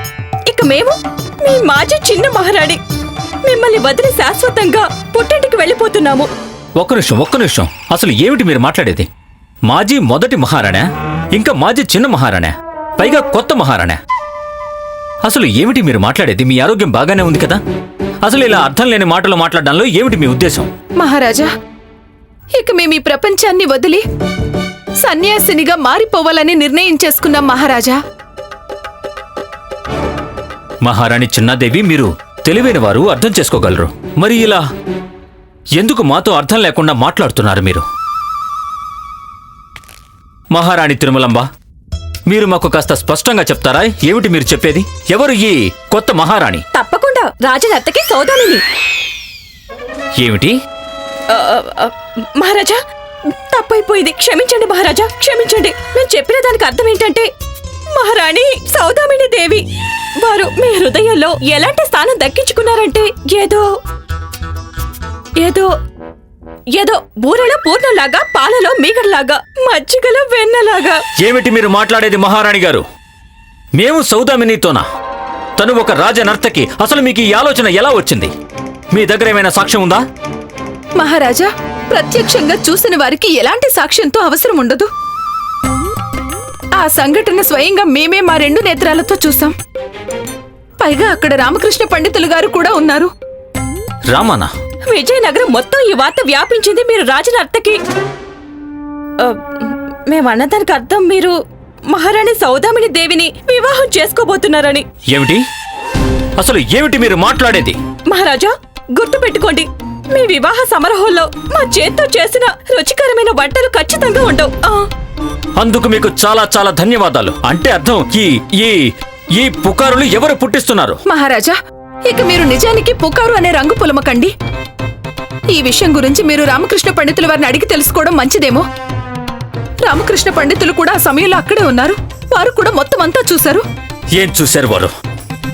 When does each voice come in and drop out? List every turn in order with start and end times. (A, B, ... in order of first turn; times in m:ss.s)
0:00.5-0:02.8 A
0:03.4-0:06.3 A
0:06.8-0:09.1 B
0:09.7-0:14.0 B
0:15.2-0:17.6 B
0:18.2-0:20.7 B
0:21.0-0:21.5 C
0:22.6-0:24.0 C
0:25.0-0:28.0 C
0:30.8-0:34.6 B
0:35.8-0:37.8 B
0:40.5-0:41.5 B
0:42.3-0:46.6 B
0:46.7-0:48.6 A
0:50.2-0:50.6 B
0:51.3-0:52.8 A
0:53.5-0:57.3 A
0:57.9-0:59.6 A
1:00.2-1:03.6 A
1:05.4-1:05.7 A
1:06.7-1:11.0 A
1:11.2-1:12.8 B
1:13.8-1:14.8 B
1:15.6-1:18.3 B
1:18.9-1:20.0 B
1:21.0-1:24.9 C
1:26.8-1:29.5 C
1:30.8-1:33.1 C
1:34.1-1:34.5 B
1:34.9-1:37.8 A
1:39.2-1:41.4 A
1:41.9-1:44.9 A
1:45.1-1:45.4 B
1:46.4-1:47.8 B
1:48.1-1:54.8 A
1:55.6-2:01.0 B
2:01.1-2:04.3 C
2:05.5-2:08.6 C
2:09.8-2:13.6 C
2:14.1-2:14.9 B